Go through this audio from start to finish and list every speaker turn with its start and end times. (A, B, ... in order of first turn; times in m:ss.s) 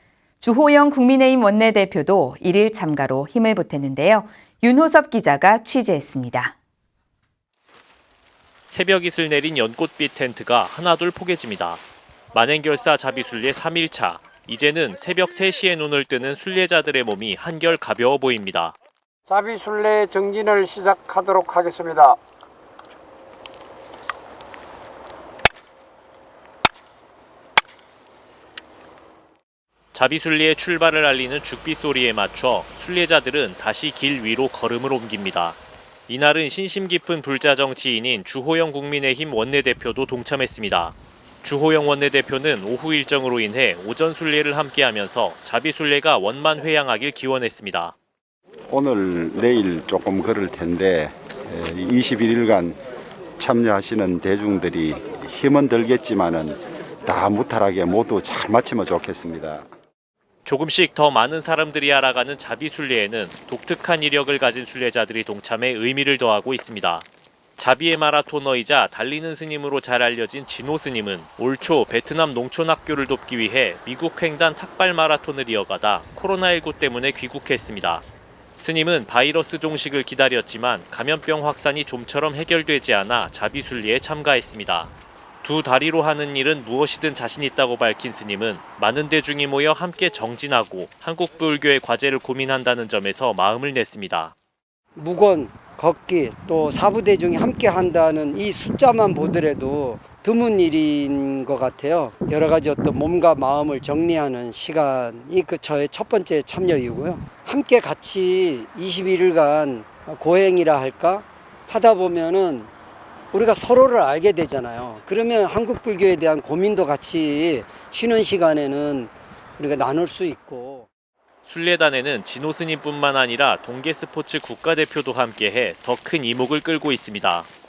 0:00.4-0:06.5 A
0:08.7-0:18.7 B
0:19.3-0:22.2 C
0:29.9-0:47.9 B
0:48.7-0:52.8 D
0:53.4-0:59.6 D
1:00.4-1:07.0 B
1:07.6-1:18.0 B
1:18.6-1:24.9 B
1:25.4-1:34.3 B
1:34.9-1:52.7 E
1:53.3-2:00.9 E
2:01.4-2:07.5 B